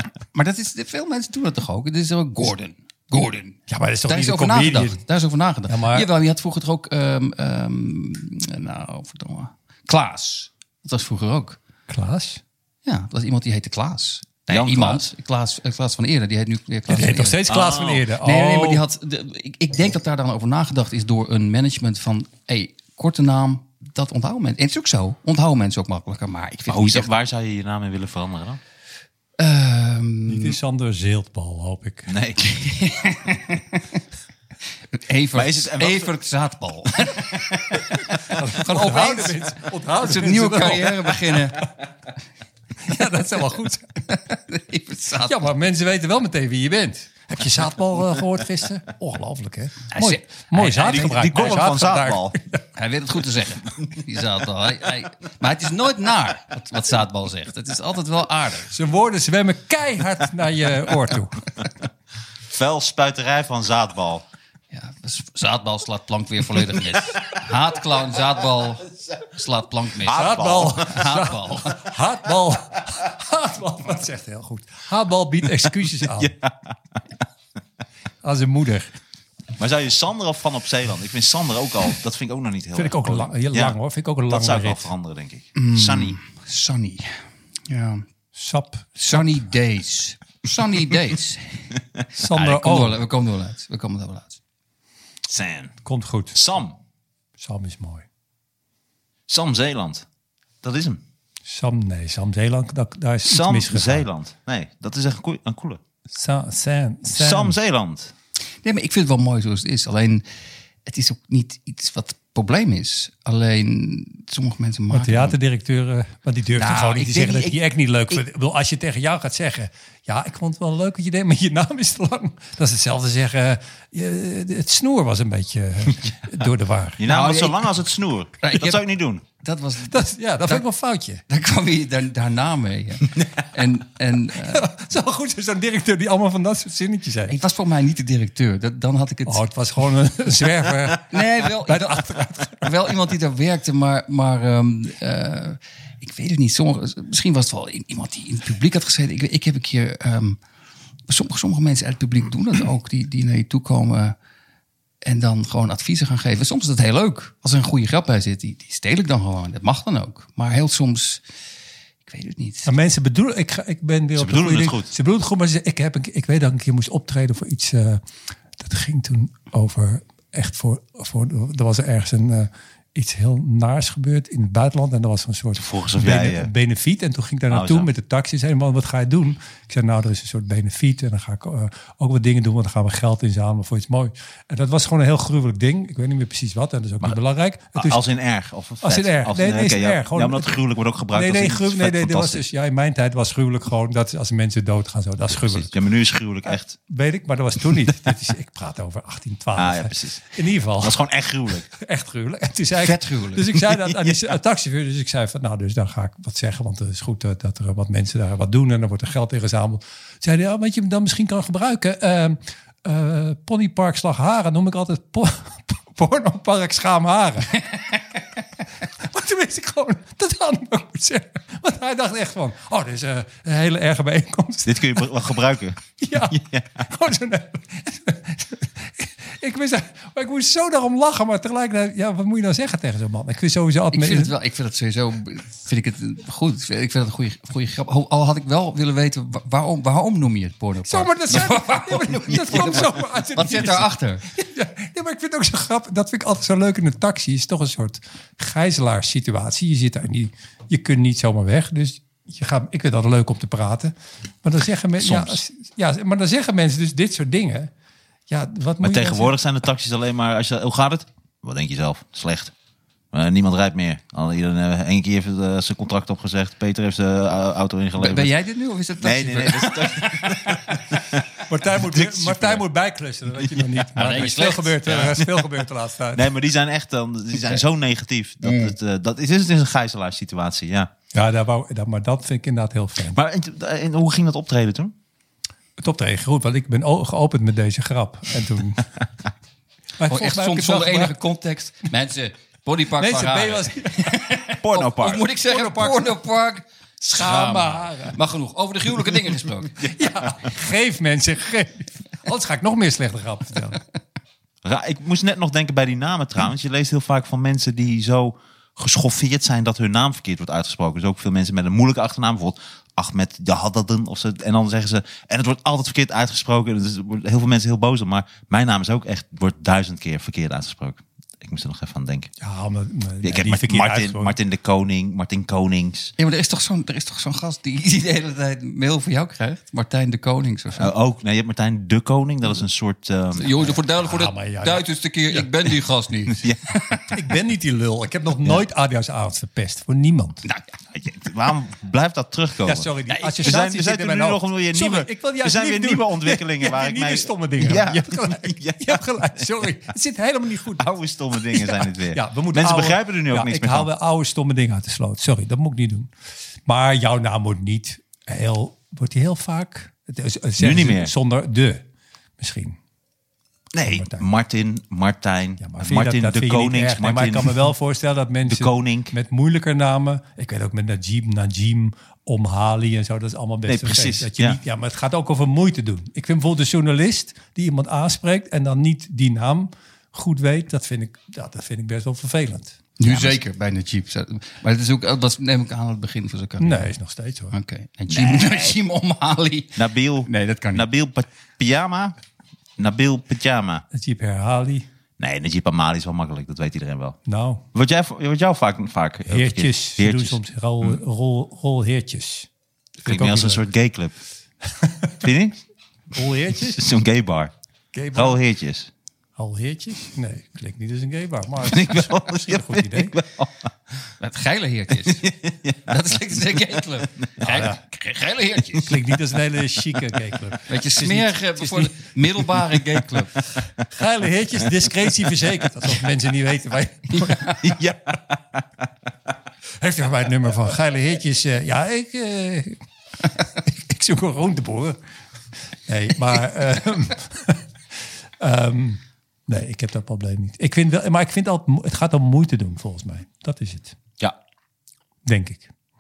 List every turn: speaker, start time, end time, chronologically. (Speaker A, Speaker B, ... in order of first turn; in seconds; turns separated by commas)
Speaker A: 0.3-11.6, Speaker B: 3.7-5.0, Speaker B: 5.7-6.1, Speaker B: 11.9-12.4, Speaker A: 12.8-17.4, Speaker C: 14.5-15.1, Speaker B: 16.9-18.8, Speaker C: 17.5-18.1, Speaker A: 18.2-27.1, Speaker C: 26.7-28.6, Speaker A: 29.4-30.6, Speaker B: 30.3-32.1, Speaker C: 32.1-32.4, Speaker A: 32.4-34.0, Speaker A: 34.9-39.4, Speaker C: 35.3-36.1, Speaker B: 38.3-41.6, Speaker A: 40.0-41.7, Speaker B: 42.9-44.0, Speaker A: 44.1-45.5, Speaker B: 45.3-52.6, Speaker A: 49.9-51.1, Speaker C: 50.6-52.4, Speaker A: 52.8-58.7, Speaker B: 58.7-61.5, Speaker C: 62.5-64.2, Speaker A: 64.7-71.9, Speaker C: 70.0-71.1, Speaker B: 70.1-76.3, Speaker C: 76.0-77.0, Speaker B: 78.2-78.9, Speaker C: 79.6-83.8, Speaker B: 82.8-84.9, Speaker C: 84.3-86.2, Speaker A: 85.5-88.1, Speaker B: 88.3-89.4, Speaker A: 89.0-91.6, Speaker A: 92.2-94.4, Speaker B: 92.2-93.0, Speaker C: 95.2-95.7, Speaker B: 95.8-96.4, Speaker C: 96.3-96.8, Speaker B: 97.4-98.0, Speaker C: 99.3-100.0, Speaker C: 100.6-101.0, Speaker B: 101.5-104.1, Speaker C: 103.2-105.8, Speaker B: 106.1-107.6, Speaker C: 107.1-108.1, Speaker A: 108.6-110.2, Speaker A: 110.9-115.4, Speaker B: 114.9-127.0, Speaker A: 116.5-117.6, Speaker C: 127.0-129.2, Speaker A: 127.0-127.8, Speaker A: 128.4-128.8, Speaker A: 129.4-130.6, Speaker B: 129.9-131.2, Speaker A: 131.3-134.7, Speaker B: 134.3-137.4, Speaker A: 137.3-139.4, Speaker B: 139.3-142.6, Speaker A: 141.1-150.4, Speaker A: 151.1-154.2, Speaker A: 155.0-161.2, Speaker A: 162.1-162.7, Speaker B: 162.7-168.0, Speaker C: 164.2-164.9, Speaker B: 168.6-188.0, Speaker C: 175.6-176.5, Speaker C: 177.5-177.9, Speaker C: 187.8-192.4, Speaker B: 188.8-195.7, Speaker C: 195.3-196.7, Speaker B: 196.8-201.0, Speaker C: 199.6-201.7, Speaker B: 201.7-217.8, Speaker A: 202.8-203.5, Speaker C: 203.6-204.3, Speaker B: 219.0-225.2, Speaker C: 224.7-226.8, Speaker B: 226.0-234.3, Speaker A: 233.9-244.2, Speaker B: 240.9-253.9, Speaker C: 242.3-242.6, Speaker B: 254.4-257.7, Speaker C: 255.0-255.4, Speaker B: 258.3-259.3, Speaker C: 258.8-262.5, Speaker C: 263.1-268.3, Speaker A: 268.0-270.8, Speaker C: 269.0-272.6, Speaker B: 271.4-276.3, Speaker A: 274.0-275.2, Speaker C: 274.9-275.4, Speaker C: 276.1-280.9, Speaker A: 278.4-278.7, Speaker B: 281.1-283.2, Speaker C: 283.1-284.9, Speaker B: 285.8-288.9, Speaker B: 290.0-291.2, Speaker A: 290.1-299.8, Speaker B: 293.0-294.2, Speaker C: 294.6-295.3, Speaker B: 295.4-296.2, Speaker B: 297.0-298.2, Speaker C: 299.8-300.3, Speaker B: 299.9-303.8, Speaker C: 304.6-322.3, Speaker B: 322.4-324.4, Speaker C: 323.2-326.1, Speaker A: 326.2-330.9, Speaker C: 330.8-333.6, Speaker A: 333.3-337.1, Speaker B: 334.0-335.5, Speaker B: 337.1-340.4, Speaker C: 340.9-349.5, Speaker B: 342.6-350.9, Speaker A: 343.1-343.5, Speaker C: 350.8-353.9, Speaker B: 351.4-356.1, Speaker B: 356.7-361.8, Speaker C: 360.6-361.1, Speaker B: 362.4-362.8, Speaker C: 363.7-367.7, Speaker B: 363.8-364.3, Speaker B: 365.6-382.8, Speaker C: 368.4-369.1, Speaker C: 373.7-374.6, Speaker A: 383.0-386.9, Speaker C: 383.0-383.4, Speaker B: 386.6-387.5, Speaker A: 387.5-390.9, Speaker C: 388.1-388.8, Speaker C: 389.8-392.2, Speaker C: 392.8-393.9, Speaker B: 393.9-394.9, Speaker C: 395.2-397.2, Speaker B: 397.3-397.6, Speaker C: 397.7-401.0, Speaker B: 399.3-402.5, Speaker B: 403.0-403.7, Speaker C: 403.1-404.1, Speaker B: 404.8-405.1, Speaker C: 405.2-405.6, Speaker B: 406.1-406.8, Speaker C: 406.6-407.5, Speaker B: 407.9-408.4, Speaker C: 408.1-408.9, Speaker B: 409.4-413.1, Speaker C: 411.6-413.7, Speaker A: 414.2-415.3, Speaker C: 415.1-416.6, Speaker A: 415.9-418.9, Speaker B: 417.5-417.8, Speaker B: 418.8-422.1, Speaker A: 420.7-423.4, Speaker B: 423.8-427.7, Speaker A: 427.1-427.6, Speaker C: 427.6-428.6, Speaker B: 429.8-432.8, Speaker B: 433.4-435.0, Speaker B: 435.9-437.6, Speaker B: 438.4-444.0, Speaker B: 445.2-445.7